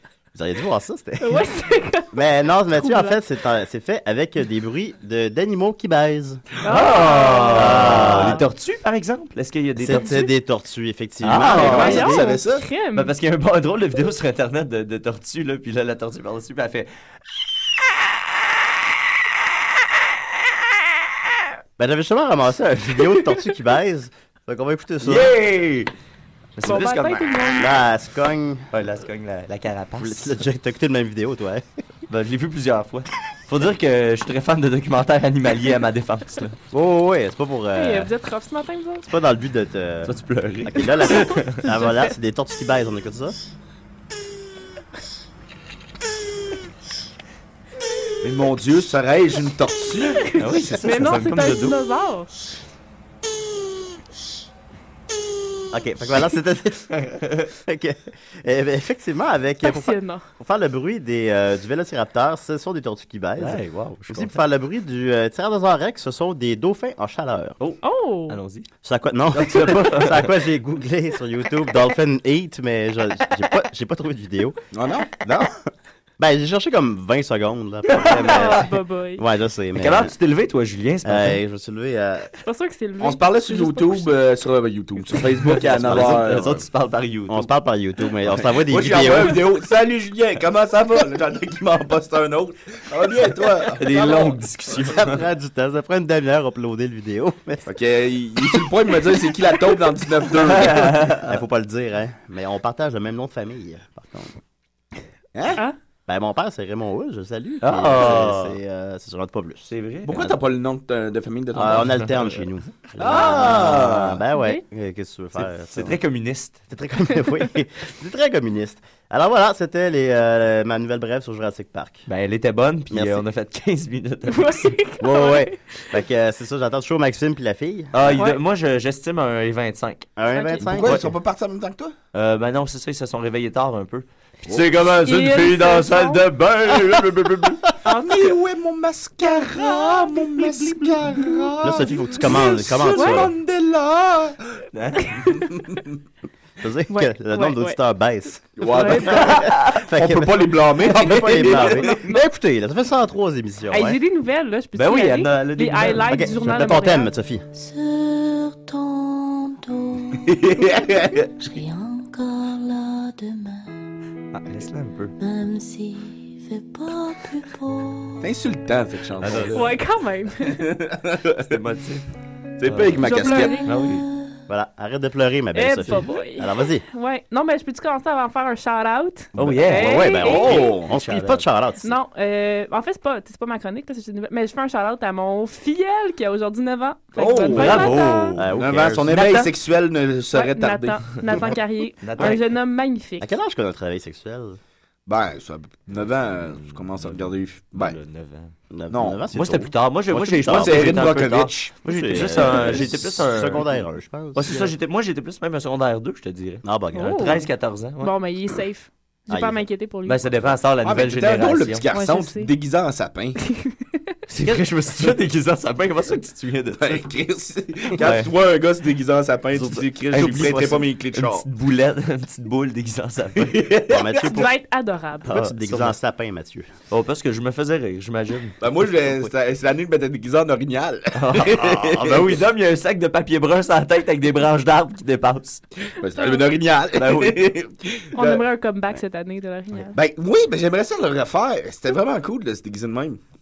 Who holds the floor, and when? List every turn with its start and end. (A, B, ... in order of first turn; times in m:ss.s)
0:00.3-0:01.5 A
0:01.2-0:02.1 B
0:02.1-0:06.4 A
0:02.7-0:03.2 B
0:06.6-0:08.4 B
0:06.6-0:10.2 C
0:07.5-0:08.4 A
0:09.8-0:12.3 A
0:09.9-0:10.2 B
0:11.2-0:12.1 C
0:11.3-0:12.6 D
0:11.4-0:13.1 B
0:12.9-0:16.9 C
0:21.8-0:25.3 A
0:25.0-0:25.9 C
0:26.6-0:27.7 C
0:26.6-0:27.8 B
0:27.6-0:28.7 A
0:28.7-0:30.4 C
0:30.0-0:31.6 A
0:32.1-0:36.6 C
0:36.7-0:38.1 A
0:37.7-0:39.0 B
0:39.0-0:43.4 A
0:40.0-0:41.6 C
0:41.3-0:42.1 B
0:48.2-0:50.2 D
0:50.2-0:52.3 B
0:50.4-0:51.8 C
0:55.7-0:56.9 A
0:56.9-0:57.5 C
0:57.6-1:07.6 A
0:59.6-1:00.2 B
1:03.4-1:04.4 C
1:07.6-1:08.7 C
1:07.8-1:08.4 B
1:08.8-1:14.6 A
1:09.3-1:10.3 C
1:14.7-1:15.5 D
1:16.2-1:20.1 A
1:17.9-1:18.6 C
1:18.0-1:19.2 B
1:19.8-1:21.4 C
1:21.0-1:22.3 A
1:22.4-1:24.1 B
1:23.0-1:26.6 D
1:25.4-1:27.5 C
1:25.6-1:26.6 A
1:27.3-1:29.4 A
1:28.6-1:34.3 D
1:33.8-1:35.2 C
1:34.8-1:37.7 A
1:37.6-1:41.1 D
1:40.4-1:41.3 C
1:41.2-1:44.4 A
1:45.3-1:45.6 D
1:46.1-1:50.3 A
1:47.6-1:48.6 C
1:49.7-1:50.2 C
1:50.0-1:52.0 D
1:51.5-1:56.0 A
1:51.9-1:52.3 C
1:53.0-1:54.2 D
1:53.0-1:54.0 C
1:54.3-1:54.6 B
1:55.3-1:56.6 C
1:56.7-2:02.1 A
2:02.1-2:04.7 C
2:02.9-2:03.2 A
2:04.3-2:05.9 B
2:05.0-2:07.9 A
2:07.9-2:10.1 C
2:08.0-2:08.4 B
2:10.2-2:11.0 A
2:10.3-2:10.7 B
2:10.6-2:11.1 C
2:10.6-2:11.9 D
2:12.1-2:17.6 C
2:14.4-2:14.8 D
2:15.0-2:16.2 B
2:17.8-2:18.4 B
2:17.9-2:24.4 D
2:19.2-2:20.3 B
2:21.2-2:21.6 B
2:21.6-2:23.3 A
2:22.9-2:23.3 B
2:24.7-2:25.3 C
2:25.0-2:25.3 B
2:25.3-2:25.8 D
2:26.6-2:34.0 A
2:26.9-2:27.8 B
2:28.6-2:32.0 D
2:28.6-2:29.5 B
2:29.1-2:29.8 C
2:33.7-2:37.1 B
2:34.8-2:36.1 C
2:36.1-2:37.4 A
2:37.5-2:40.4 E
2:40.5-2:41.2 D
2:41.4-2:43.8 E
2:44.3-2:45.1 C
2:45.2-2:48.3 E
2:48.2-2:49.7 D
2:49.2-2:49.7 C
2:49.5-2:50.7 B
2:50.6-2:51.4 D
2:51.2-2:52.0 C
2:52.6-2:53.6 D
2:52.6-2:53.0 C
2:53.0-2:53.8 B
2:53.6-2:54.0 C
2:53.7-2:54.4 E
2:54.5-2:56.8 A
2:55.5-3:00.8 B
2:59.3-3:01.4 C
2:59.4-3:02.0 A
3:00.2-3:00.9 D
3:01.8-3:08.5 B
3:07.1-3:11.3 D
3:07.5-3:08.5 C
3:08.4-3:09.2 A
3:09.1-3:09.5 C
3:10.3-3:13.3 B
3:12.0-3:12.5 C
3:13.2-3:14.6 A
3:15.1-3:18.0 D
3:16.5-3:18.5 C
3:18.7-3:21.2 A
3:18.9-3:19.2 D
3:19.3-3:23.8 C
3:20.4-3:22.8 D
3:21.8-3:24.5 A
3:24.3-3:28.1 C
3:26.6-3:27.4 A
3:26.9-3:27.5 B
3:28.0-3:30.5 B
3:29.3-3:29.6 A
3:30.0-3:31.8 C
3:30.8-3:33.4 D
3:31.9-3:32.5 B
3:33.4-3:33.8 B
3:34.3-3:37.1 C
3:36.8-3:41.4 D
3:38.0-3:38.3 C
3:39.5-3:44.2 C
3:43.9-3:44.5 A
3:44.1-3:45.3 B
3:45.2-3:46.7 A
3:45.3-3:46.0 C
3:46.9-3:48.6 C
3:48.6-3:52.2 D
3:51.1-3:55.6 C
3:56.0-3:58.4 D
3:56.9-3:57.4 C
3:58.2-3:59.9 B
3:59.9-4:03.2 D